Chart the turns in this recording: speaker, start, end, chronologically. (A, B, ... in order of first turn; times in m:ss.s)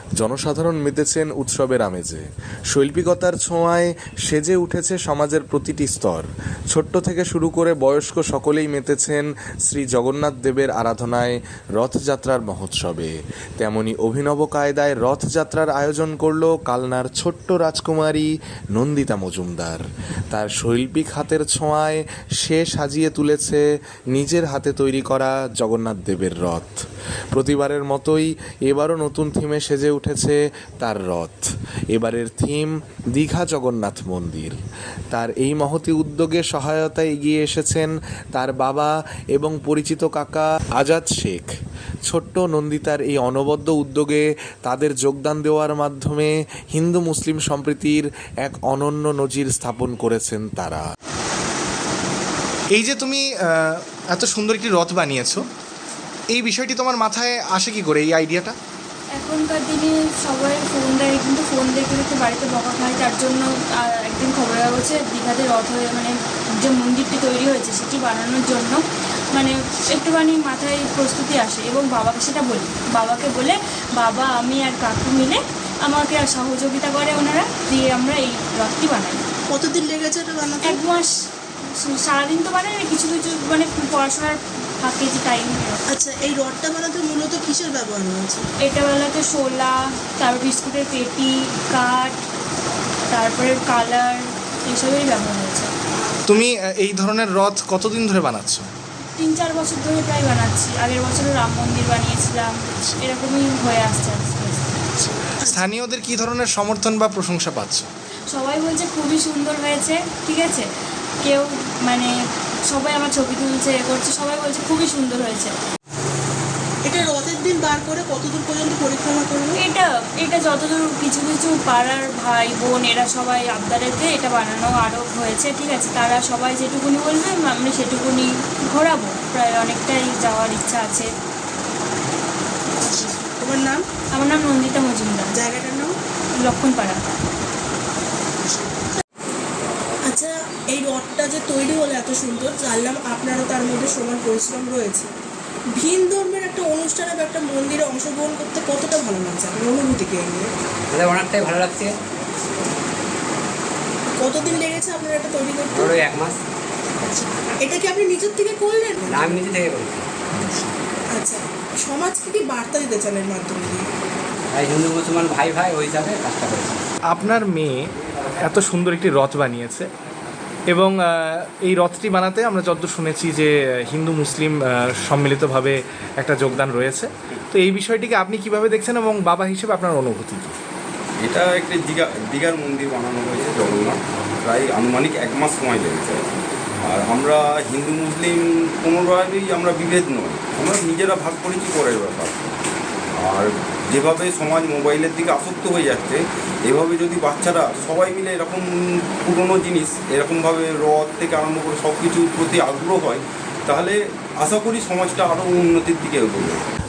0:00.2-0:26.8 A
0:27.3-0:34.6 A
0:35.1-0:41.5 A
0:42.1-0:50.8 A
0:52.7-0:55.5 B
0:56.3-0:58.6 B
0:59.2-1:08.8 C
1:09.3-1:19.2 C
1:19.5-1:20.8 D
1:20.6-1:21.1 C
1:21.7-1:25.8 C
1:25.9-1:28.5 D
1:28.6-1:32.2 C
1:33.1-1:35.7 C
1:36.3-1:38.7 B
1:39.2-1:44.8 C
1:45.0-1:47.9 B
1:48.3-1:50.7 C
1:51.2-1:52.1 C
1:52.7-1:55.5 C
1:56.8-1:59.6 D
1:59.6-2:11.1 C
2:12.7-2:13.8 D
2:14.1-2:15.3 C
2:15.4-2:15.9 D
2:16.4-2:17.1 C
2:20.1-2:25.1 D
2:25.8-2:30.5 D
2:30.9-2:32.0 E
2:34.1-2:36.0 D
2:35.7-2:36.4 E
2:37.6-2:39.4 D
2:39.1-2:40.0 E
2:40.4-2:40.7 B
2:41.1-2:43.9 D
2:44.5-2:46.8 E
2:47.1-2:49.9 B
2:50.7-3:00.6 B
3:01.2-3:06.3 F
3:06.8-3:12.5 F
3:13.2-3:26.6 F